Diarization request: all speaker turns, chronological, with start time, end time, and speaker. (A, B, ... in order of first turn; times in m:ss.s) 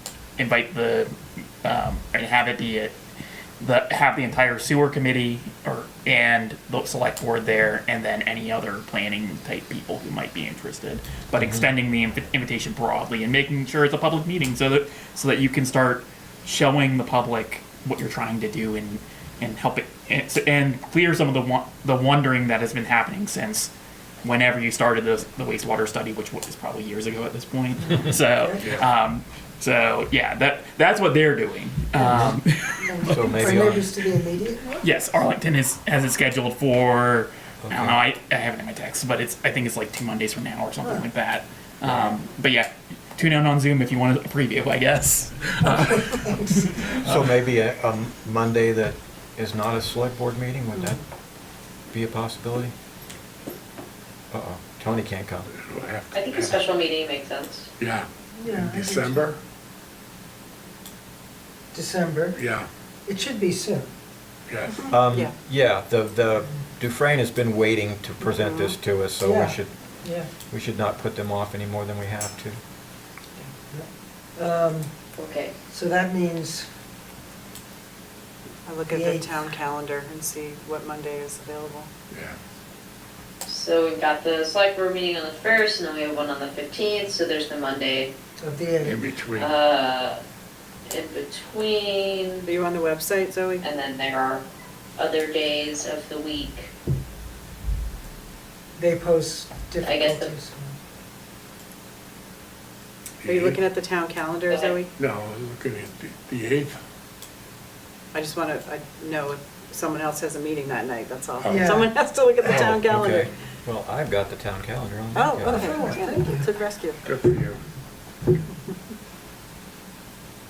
0:00.4-0:02.9 A
0:03.6-0:23.7 A
0:11.4-0:11.7 B
0:24.2-0:33.8 A
0:28.0-0:28.8 C
0:28.6-0:28.8 D
0:31.9-0:34.8 C
0:32.0-0:32.4 B
0:33.1-0:33.8 B
0:34.8-0:47.2 A
0:37.6-0:38.0 B
0:40.8-0:41.1 C
0:41.8-0:42.2 B
0:45.6-0:46.8 C
0:47.0-0:51.2 B
0:51.9-0:52.7 B
0:54.3-0:55.5 B
0:55.6-0:56.7 D
0:56.1-0:57.7 E
0:57.8-0:59.4 D
0:58.4-0:59.3 C
1:01.7-1:02.4 C
1:02.4-1:02.7 D
1:03.0-1:03.9 C
1:04.5-1:04.9 D
1:04.9-1:12.6 B
1:05.0-1:05.3 F
1:08.2-1:08.8 F
1:09.2-1:10.3 C
1:13.7-1:14.9 C
1:15.2-1:15.5 E
1:15.7-1:16.7 C
1:18.7-1:21.9 F
1:18.9-1:19.4 C
1:22.1-1:22.4 D
1:23.5-1:28.1 E
1:28.4-1:29.1 C
1:28.8-1:29.6 D
1:29.3-1:30.2 E
1:30.9-1:32.5 E
1:32.4-1:33.6 F
1:33.6-1:34.4 E
1:35.0-1:36.7 E
1:38.8-1:40.8 C
1:39.8-1:40.4 E
1:43.2-1:43.6 D
1:43.2-1:44.9 F
1:44.5-1:44.8 E
1:45.0-1:46.8 D
1:48.1-1:53.3 F
1:51.4-1:51.8 D
1:51.5-1:52.7 C
1:52.4-1:55.8 B
1:55.1-1:57.1 F
1:55.4-1:56.5 C
1:57.0-1:57.6 D